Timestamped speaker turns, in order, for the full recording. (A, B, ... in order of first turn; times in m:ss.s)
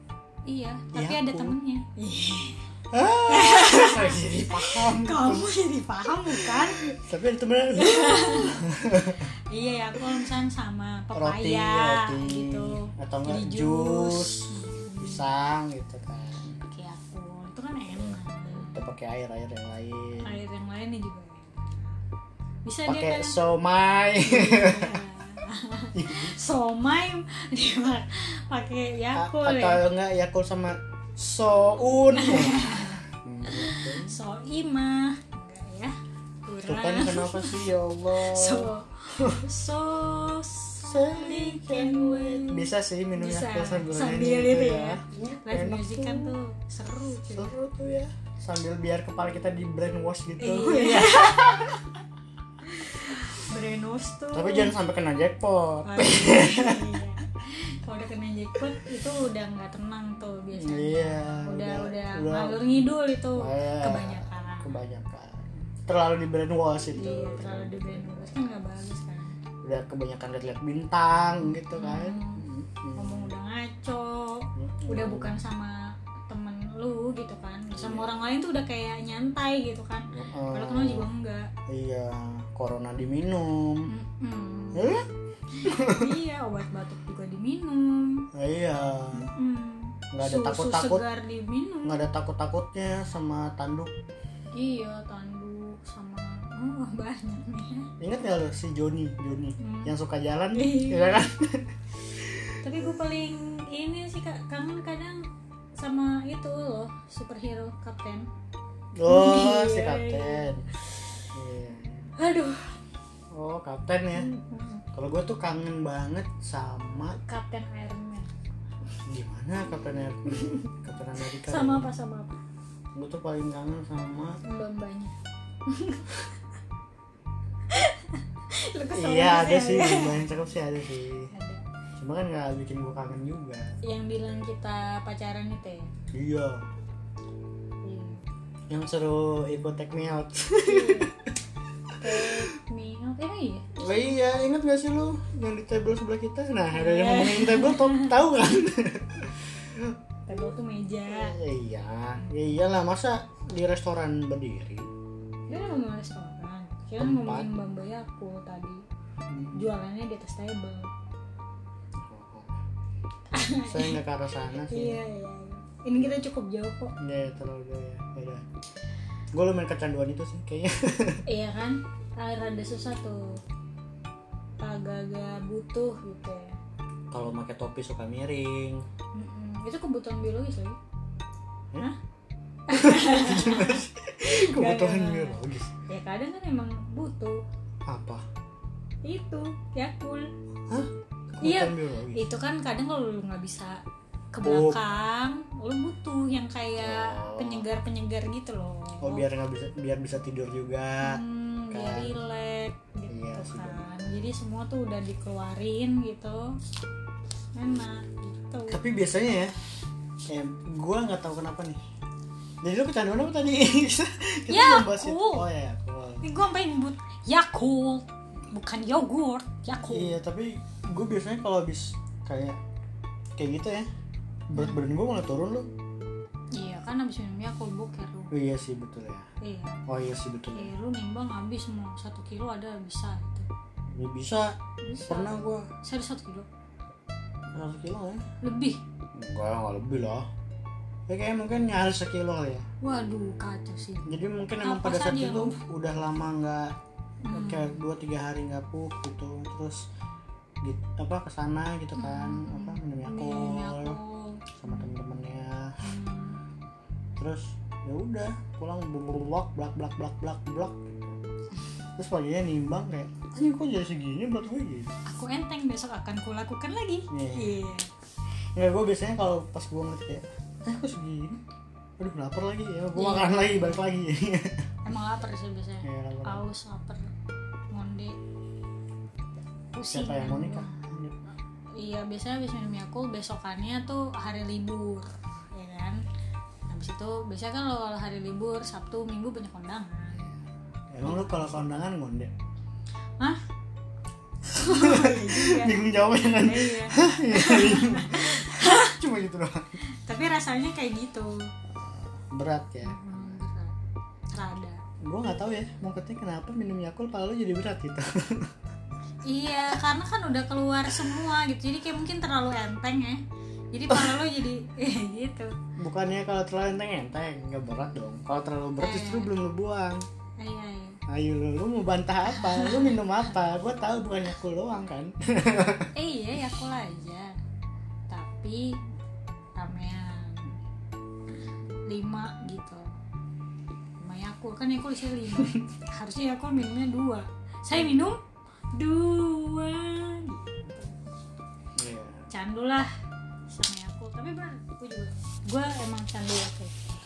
0:00.5-0:02.7 A
0:00.9-0:01.6 B
0:02.9-0:05.5 B
0:03.3-0:06.8 A
0:06.2-0:09.3 B
0:07.8-0:08.6 A
0:09.5-0:15.2 A
0:11.1-0:16.5 B
0:16.6-0:18.8 A
0:17.9-0:20.4 B
0:20.2-0:22.0 A
0:22.6-0:23.4 A
0:22.9-0:25.0 B
0:24.2-0:29.8 A
0:25.9-0:26.4 B
0:29.1-0:34.2 B
0:32.1-0:47.5 A
0:36.6-0:39.5 B
0:40.8-0:46.4 B
0:47.3-0:51.9 B
0:50.4-0:51.9 A
0:52.6-0:54.7 A
0:54.3-0:57.0 B
0:55.9-1:04.8 A
1:00.5-1:02.6 B
1:03.4-1:08.6 B
1:07.0-1:09.4 A
1:09.6-1:13.3 B
1:11.4-1:21.5 A
1:14.6-1:15.4 B
1:17.7-1:18.1 B
1:20.1-1:21.1 B
1:21.7-1:23.9 B
1:23.9-1:24.9 A
1:24.7-1:25.1 B
1:25.5-1:28.3 A
1:25.6-1:26.1 B
1:28.3-1:29.3 B
1:29.1-1:32.0 A
1:30.1-1:31.0 B
1:31.8-1:33.9 B
1:34.5-1:37.9 A
1:38.0-1:42.6 B
1:39.6-1:39.9 A
1:40.5-1:41.2 A
1:42.6-1:45.3 A
1:45.8-1:48.3 A
1:49.0-1:50.7 B
1:49.0-1:50.5 A
1:51.3-1:52.1 B
1:52.2-1:52.8 A
1:53.3-1:54.3 B
1:54.1-1:54.8 A
1:54.9-1:57.2 B
1:57.2-1:58.3 A
1:59.0-2:01.9 B
2:00.3-2:00.6 A
2:01.2-2:02.4 A
2:03.0-2:04.4 B
2:04.4-2:05.1 A
2:05.7-2:06.2 A
2:07.7-2:10.2 A
2:09.0-2:11.3 B
2:11.3-2:11.6 A
2:12.0-2:13.7 B
2:13.8-2:15.9 A
2:16.1-2:16.6 B
2:17.8-2:18.2 A
2:18.7-2:21.1 B
2:20.6-2:21.1 A
2:22.0-2:23.8 A
2:22.1-2:22.4 B
2:23.8-2:30.0 B
2:26.7-2:28.1 A
2:30.2-2:31.4 A
2:31.1-2:34.9 B
2:35.5-2:38.8 A
2:37.0-2:37.6 B
2:39.3-2:39.7 B
2:39.5-2:40.9 A
2:42.0-2:42.5 B
2:43.3-2:44.0 A
2:43.6-2:45.0 B
2:44.6-2:47.0 A
2:47.0-2:48.4 B
2:49.3-2:51.2 B
2:51.3-2:53.4 A
2:54.6-2:56.6 A
2:57.1-2:58.8 B
2:59.2-3:00.8 A
3:02.7-3:07.4 A
3:02.7-3:05.7 B
3:07.9-3:08.2 B
3:09.0-3:10.3 A
3:10.7-3:12.2 B
3:11.4-3:13.8 A
3:14.3-3:19.2 A
3:14.4-3:14.8 B
3:16.8-3:17.6 B
3:19.0-3:22.2 B
3:21.0-3:26.5 A
3:23.1-3:24.3 B
3:27.5-3:28.8 A
3:28.7-3:29.5 B
3:30.3-3:31.8 B
3:32.6-3:36.3 B
3:34.5-3:35.5 A
3:36.2-3:40.2 A
3:39.9-3:42.6 B
3:43.4-3:43.9 B
3:44.5-3:45.7 B
3:44.5-3:44.8 A
3:46.5-3:48.3 A
3:48.3-3:49.3 B
3:49.4-3:49.8 A
3:49.9-3:50.7 B
3:50.5-3:53.5 A
3:53.9-3:55.6 B
3:54.8-3:56.5 A
3:57.5-3:58.2 B
3:58.4-3:58.8 A
3:59.1-4:00.3 B
4:01.1-4:02.6 B
4:02.8-4:04.1 A
4:04.0-4:06.8 B
4:04.6-4:05.6 A
4:07.2-4:07.8 A
4:07.3-4:09.8 B
4:10.6-4:14.0 B
4:12.0-4:14.9 A
4:14.6-4:15.8 B
4:15.8-4:16.4 A
4:17.2-4:21.2 B
4:22.0-4:24.9 B
4:25.0-4:27.9 A
4:27.1-4:27.5 B
4:28.6-4:31.4 B
4:32.0-4:34.6 B
4:33.0-4:33.9 A
4:34.8-4:37.0 A
4:35.8-4:36.4 B
4:37.7-4:38.2 A
4:39.7-4:40.8 A
4:39.9-4:41.2 B
4:41.8-4:46.0 A
4:46.7-4:50.4 A
4:50.9-4:52.3 B
4:51.0-4:51.6 A
4:54.5-4:59.0 A
4:54.5-4:59.8 B
5:00.0-5:01.5 A
5:01.7-5:03.4 B
5:02.8-5:03.7 A
5:04.3-5:04.8 A
5:05.0-5:08.5 B
5:09.2-5:13.2 A
5:13.7-5:15.5 A
5:15.8-5:20.0 B
5:18.8-5:19.3 A
5:20.4-5:21.0 A
5:21.1-5:25.9 B
5:22.3-5:23.0 A
5:26.0-5:27.4 A
5:28.1-5:28.8 A
5:29.6-5:30.6 A
5:31.9-5:32.9 A
5:34.0-5:38.2 A
5:38.8-5:41.0 A
5:41.8-5:42.2 B
5:42.3-5:42.9 A
5:43.5-5:46.7 A